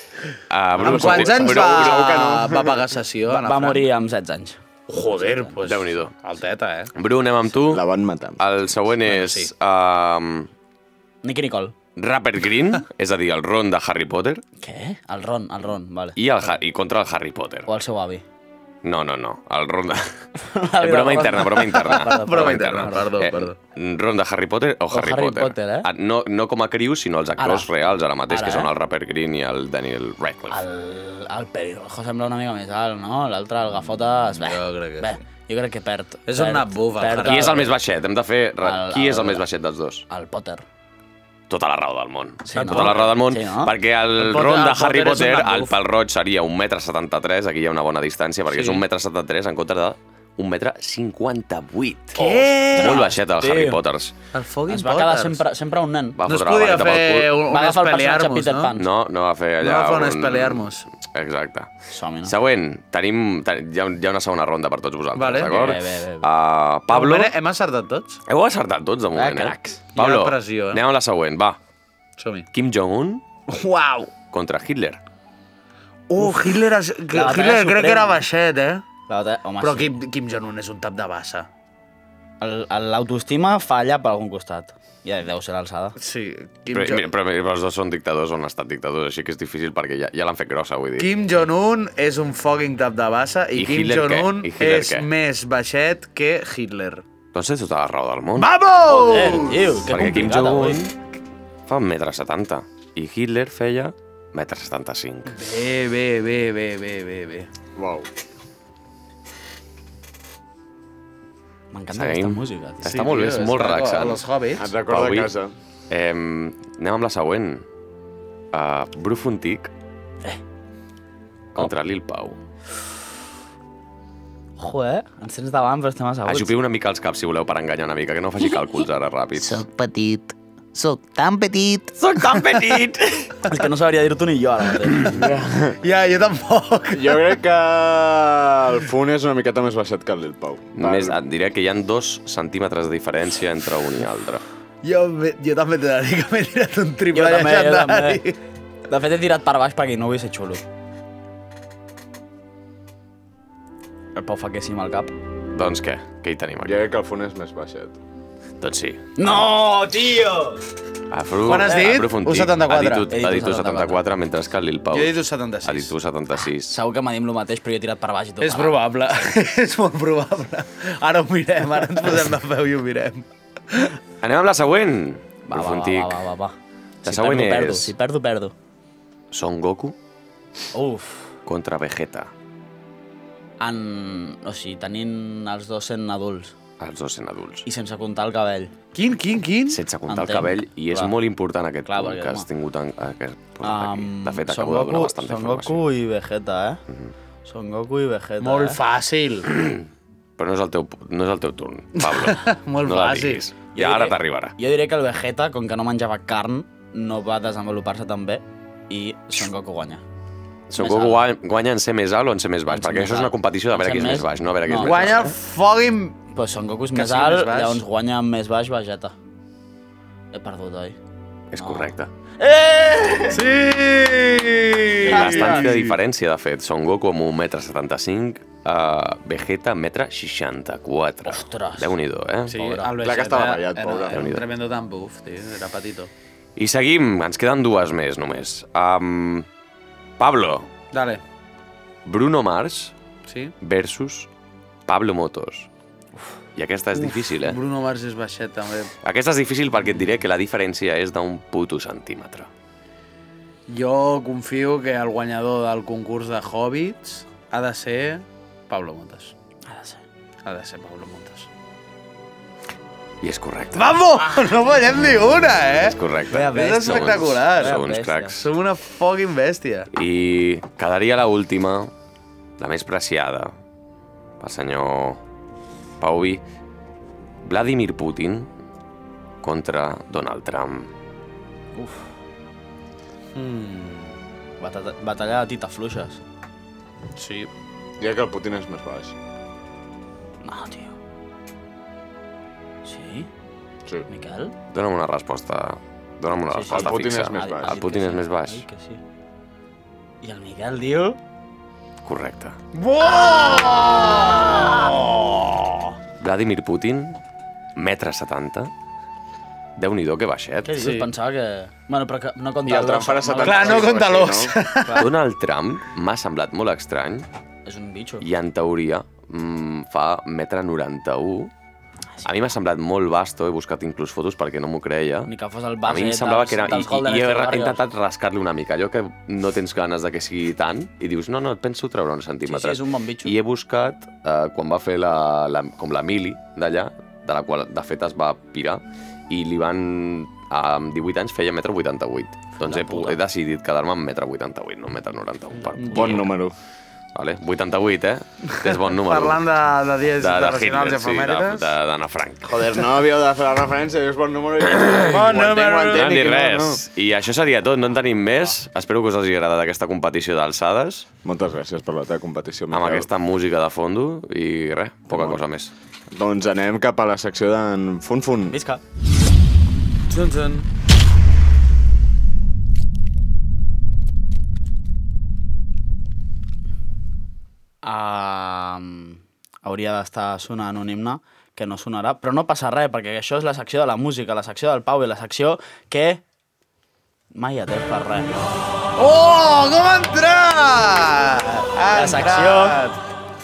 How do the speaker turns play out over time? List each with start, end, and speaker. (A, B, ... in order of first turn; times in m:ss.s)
0:00.5-0:02.1 A
0:00.8-0:02.8 B
0:00.8-0:03.8 C
0:03.3-0:04.6 D
0:04.9-0:06.9 C
0:05.1-0:05.5 D
0:05.6-0:06.1 A
0:06.9-0:07.8 A
0:07.7-0:08.4 B
0:08.4-0:10.5 A
0:09.1-0:09.5 C
0:11.2-0:11.8 D
0:12.0-0:14.4 A
0:14.6-0:16.2 D
0:16.2-0:17.7 A
0:17.6-0:18.2 D
0:18.8-0:20.1 A
0:20.4-0:23.1 D
0:20.8-0:30.6 A
0:22.1-0:23.6 C
0:24.9-0:25.9 D
0:27.4-0:27.7 D
0:28.3-0:28.7 D
0:30.5-0:37.7 D
0:34.4-0:35.2 C
0:36.3-0:37.6 C
0:37.2-0:40.0 A
0:38.6-0:39.4 D
0:40.1-0:40.6 D
0:41.5-0:54.1 A
0:42.4-0:43.7 D
0:42.5-0:43.1 C
0:44.2-0:45.7 C
0:48.5-0:48.8 D
0:52.1-0:53.1 C
0:52.7-0:53.8 D
0:54.3-0:55.4 C
0:54.7-0:56.2 D
0:56.2-0:57.4 A
0:56.3-0:58.7 C
0:57.5-0:58.9 D
0:58.8-1:01.7 A
0:59.6-1:00.9 C
1:01.9-1:02.3 D
1:02.2-1:07.3 A
1:05.1-1:05.7 C
1:05.4-1:06.3 D
1:06.9-1:08.2 C
1:08.3-1:11.6 A
1:09.1-1:09.8 D
1:09.9-1:10.8 C
1:12.2-1:12.5 C
1:12.5-1:13.2 A
1:13.5-1:14.1 C
1:14.3-1:15.0 A
1:16.1-1:18.8 C
1:16.2-1:16.5 D
1:17.1-1:18.2 D
1:19.1-1:19.9 D
1:19.6-1:21.5 C
1:22.4-1:26.0 D
1:26.0-1:27.1 C
1:26.7-1:31.1 A
1:31.0-1:37.0 C
1:33.6-1:35.1 A
1:37.3-1:38.5 A
1:38.4-1:39.6 C
1:38.9-1:40.8 D
1:39.9-1:41.0 A
1:41.7-1:45.4 A
1:45.3-1:47.5 C
1:47.8-1:48.1 B
1:51.7-1:53.2 D
1:51.9-1:54.2 A
1:52.9-1:54.7 C
1:54.6-1:55.5 B
1:54.8-1:55.3 A
1:55.9-1:57.6 A
1:58.5-1:59.7 A
2:01.5-2:02.4 A
2:04.6-2:06.5 D
2:06.2-2:09.6 A
2:09.4-2:10.2 D
2:10.8-2:12.8 D
2:10.8-2:13.5 C
2:12.2-2:12.8 A
2:13.4-2:15.3 D
2:15.1-2:15.8 B
2:15.8-2:17.2 C
2:16.9-2:21.2 B
2:20.8-2:24.4 A
2:24.8-2:28.4 C
2:27.1-2:28.2 D
2:28.9-2:30.6 D
2:34.1-2:35.1 D
2:35.5-2:36.8 A
2:36.6-2:38.0 B
2:38.6-2:39.0 A
2:39.2-2:40.6 D
2:41.1-2:46.8 A
2:41.4-2:43.1 C
2:41.7-2:41.9 D
2:43.1-2:44.0 D
2:44.9-2:45.9 C
2:46.6-2:48.8 D
2:48.4-2:54.0 C
2:54.2-2:56.2 A
2:55.5-2:58.5 D
2:57.0-2:57.9 A
2:59.3-2:59.9 A
3:00.7-3:01.3 D
3:01.4-3:02.3 A
3:03.6-3:06.6 D
3:06.8-3:07.7 A
3:07.6-3:08.7 D
3:08.9-3:09.8 C
3:09.7-3:15.8 A
3:10.1-3:11.1 D
3:11.8-3:12.5 D
3:13.6-3:16.8 D
3:17.4-3:18.8 D
3:18.4-3:19.5 C
3:19.5-3:19.8 A
3:20.4-3:24.6 A
3:22.0-3:23.4 C
3:23.7-3:30.0 D
3:30.7-3:35.3 A
3:30.8-3:31.2 D
3:32.7-3:35.3 D
3:34.8-3:36.2 C
3:36.3-3:39.1 D
3:36.9-3:37.8 C
3:40.3-3:41.0 D
3:41.5-3:42.1 A
3:41.6-3:43.5 D
3:43.3-3:46.0 C
3:45.0-3:45.9 D
3:45.0-3:52.7 A
3:51.2-3:52.0 D
3:52.5-3:56.1 C
3:52.5-3:52.9 D
3:53.0-3:54.3 B
3:54.1-3:54.4 A
3:56.6-3:59.5 A
4:00.2-4:00.7 A
4:00.9-4:01.2 C
4:02.0-4:02.9 A
4:03.2-4:03.5 C
4:03.6-4:04.3 A
4:04.9-4:05.7 A
4:06.6-4:07.6 A
4:06.9-4:08.9 C
4:09.0-4:12.5 A
4:13.7-4:19.3 C
4:19.6-4:20.0 D
4:20.4-4:21.5 C
4:23.2-4:23.9 A
4:23.7-4:26.0 C
4:25.8-4:28.4 A
4:26.3-4:28.4 D
4:26.5-4:27.8 C
4:28.3-4:29.9 C
4:29.9-4:31.9 A
4:32.6-4:33.5 A
4:34.4-4:35.2 A
4:36.0-4:36.4 A
4:37.4-4:38.5 A
4:39.4-4:40.9 A
4:41.7-4:42.1 D
4:43.3-4:44.1 C
4:44.6-4:46.2 D
4:47.2-4:47.5 C
4:48.0-4:49.1 B
4:50.4-4:51.0 D
4:52.8-4:53.3 D
4:54.1-4:54.5 D
4:54.7-4:58.6 A
4:56.5-4:59.0 D
4:56.6-4:57.7 B
5:00.2-5:01.2 D
5:02.0-5:02.6 A
5:02.7-5:05.9 C
5:06.2-5:07.2 A
5:07.8-5:08.7 A
5:09.8-5:10.8 A
5:10.6-5:13.9 D
5:10.7-5:11.1 C
5:12.6-5:14.5 B
5:13.4-5:15.0 C
5:14.8-5:15.1 D
5:15.0-5:17.3 A
5:17.6-5:18.3 D
5:18.2-5:21.5 A
5:22.2-5:25.3 A
5:25.3-5:27.8 D
5:25.8-5:46.3 A
5:32.4-5:33.4 D
5:42.6-5:43.2 D
5:45.8-5:46.3 D
5:45.8-5:46.5 B
5:47.1-5:49.4 A
5:48.5-5:51.7 C
5:50.2-5:52.6 A
5:52.5-5:56.8 B
5:54.6-6:01.0 A
5:55.0-5:56.2 C
6:01.2-6:03.1 B
6:02.7-6:05.7 A
6:05.1-6:05.4 B
6:06.1-6:08.6 B
6:08.5-6:08.8 D
6:10.1-6:10.6 C
6:17.8-6:26.2 D
6:27.3-6:28.5 D
6:29.0-6:33.0 C
6:31.9-6:32.9 D